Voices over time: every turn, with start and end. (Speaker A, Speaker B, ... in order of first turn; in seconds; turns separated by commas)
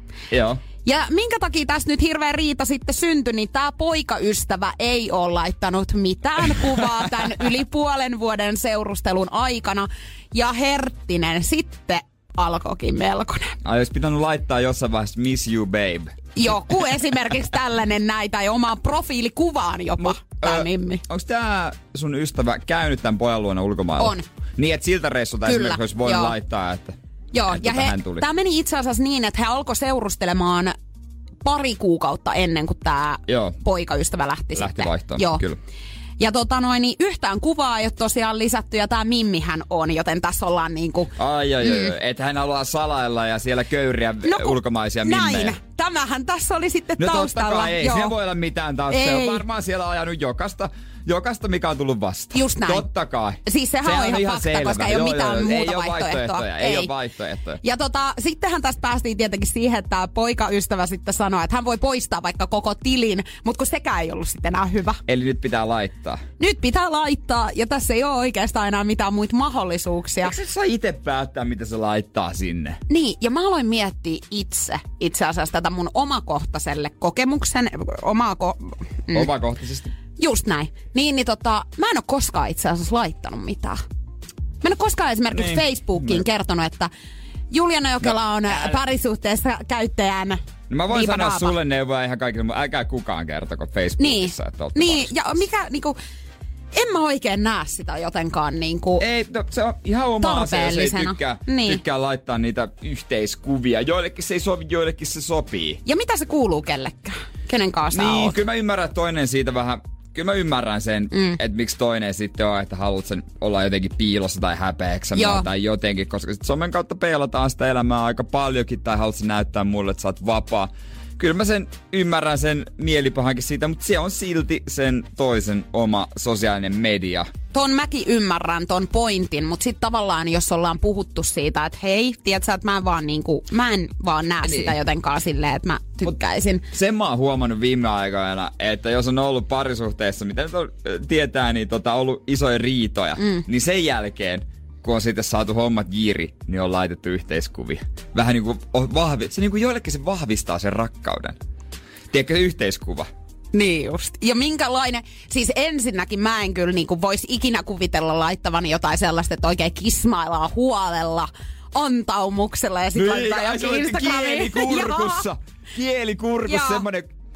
Speaker A: 0.3-0.6, Speaker B: 0.8-13.6, Speaker A: 13.6-16.6, Speaker B: 16.4-21.0, Speaker A: 20.0-27.0, Speaker B: 24.0-24.2, Speaker B: 25.5-26.4, Speaker B: 27.3-30.7, Speaker A: 27.5-28.3, Speaker B: 31.4-35.4, Speaker A: 33.3-33.6, Speaker A: 34.5-35.6, Speaker B: 36.2-41.9, Speaker A: 41.2-45.6, Speaker B: 44.2-48.2, Speaker A: 47.0-57.6, Speaker B: 48.9-49.5, Speaker B: 52.3-52.9, Speaker B: 53.4-56.9, Speaker B: 57.6-65.0, Speaker A: 65.1-66.2, Speaker B: 66.4-70.3, Speaker A: 70.2-72.8, Speaker B: 72.9-79.3, Speaker A: 79.1-79.9, Speaker B: 80.2-83.8, Speaker B: 84.6-86.9, Speaker A: 85.3-86.2, Speaker B: 87.5-90.4, Speaker A: 88.5-88.8, Speaker A: 90.7-95.1, Speaker B: 90.9-91.5, Speaker B: 94.0-96.0, Speaker B: 96.7-99.0, Speaker A: 99.0-105.8, Speaker B: 100.2-101.8, Speaker B: 105.8-108.4, Speaker A: 107.9-127.3, Speaker B: 111.1-111.4, Speaker B: 115.2-115.5, Speaker B: 127.5-136.7, Speaker A: 134.4-134.8, Speaker A: 136.7-151.4, Speaker B: 143.2-143.4, Speaker A: 152.1-153.1, Speaker B: 153.5-165.3, Speaker A: 162.9-167.1, Speaker B: 166.5-166.8